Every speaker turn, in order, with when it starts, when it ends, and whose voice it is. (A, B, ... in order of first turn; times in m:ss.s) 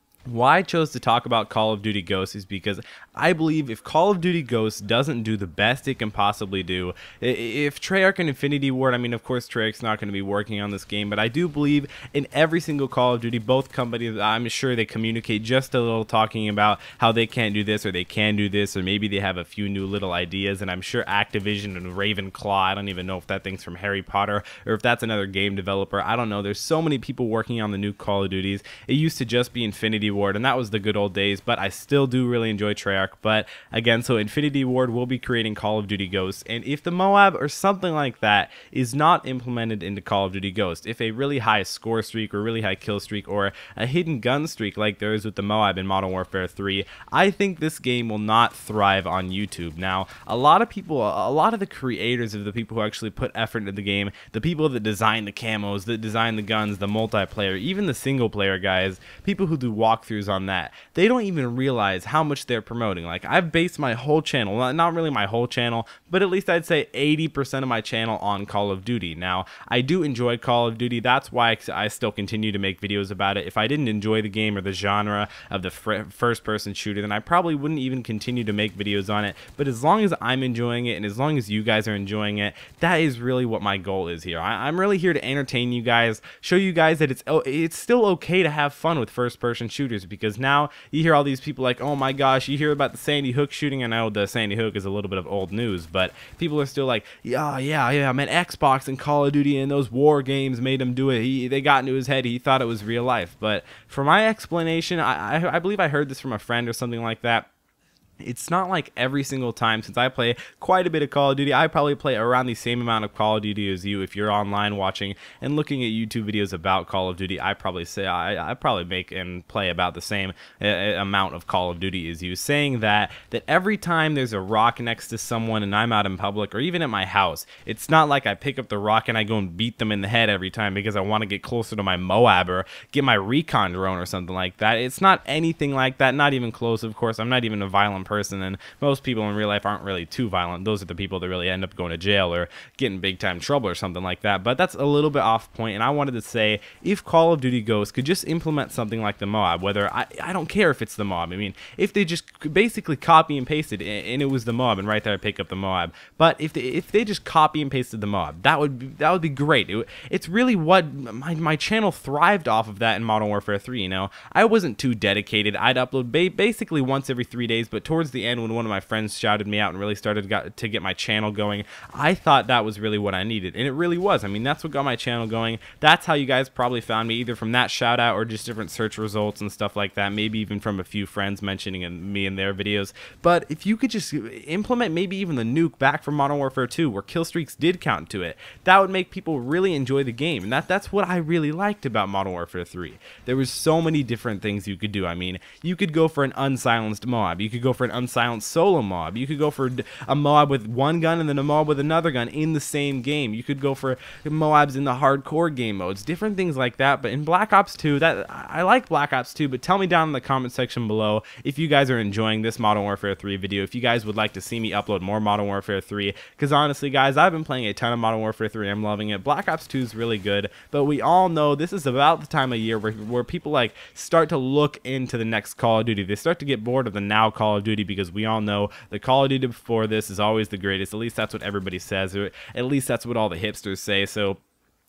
0:00.3-1:47.5 A
1:48.2-3:54.4 A